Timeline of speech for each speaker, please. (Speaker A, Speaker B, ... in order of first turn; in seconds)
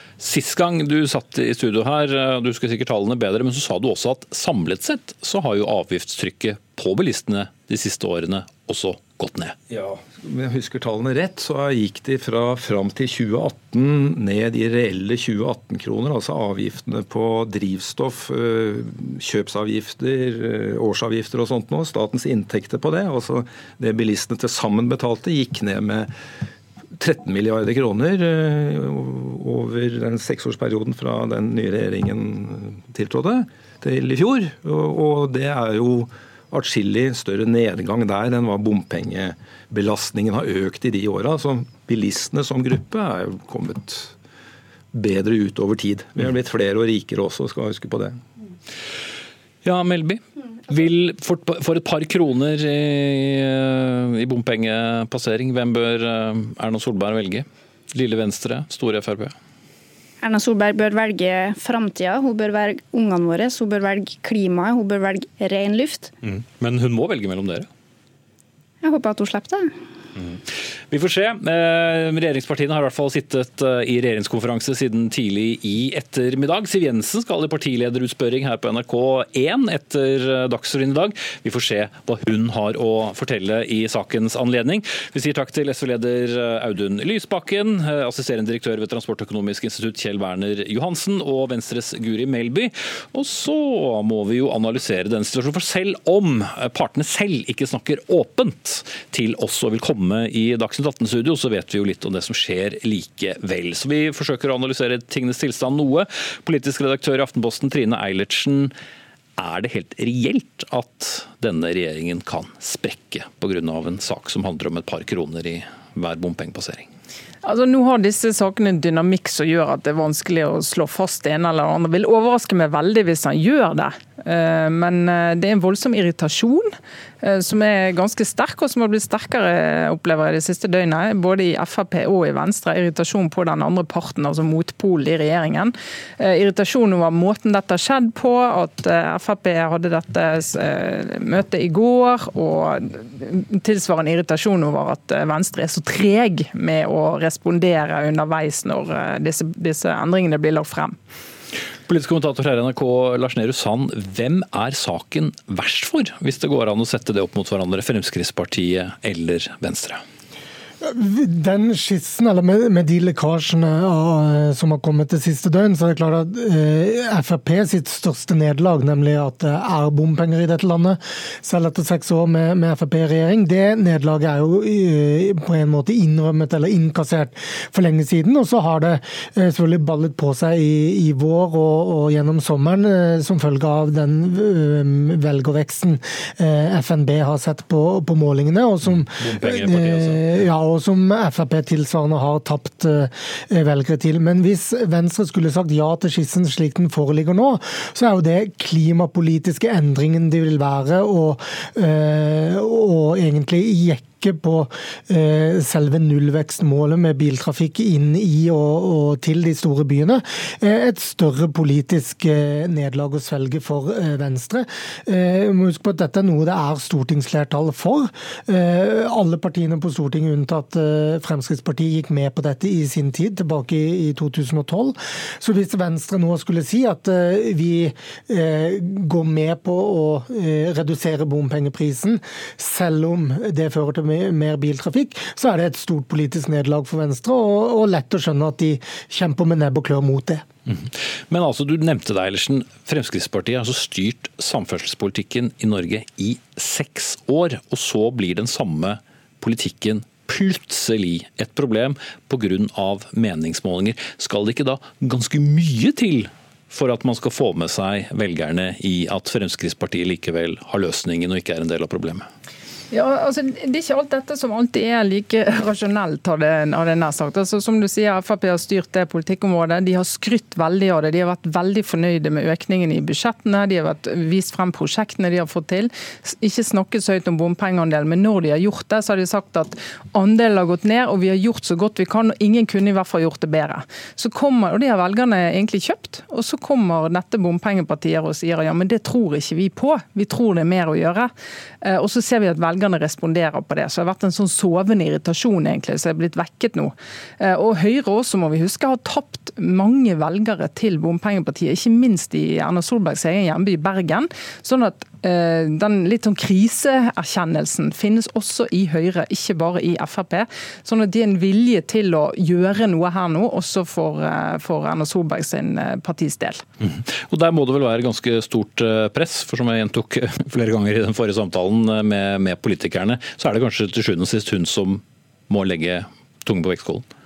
Speaker A: 0.2-9.6, 49.6-59.4, 66.2-67.7, 70.9-108.7, 109.4-116.9, 151.9-160.0, 189.1-190.2, 240.7-262.3, 316.8-327.1
Speaker B: 9.7-26.1, 27.0-44.1, 44.9-48.2
Speaker C: 60.2-66.1, 68.8-69.7
Speaker D: 117.4-151.0, 262.9-316.6
Speaker E: 160.8-240.4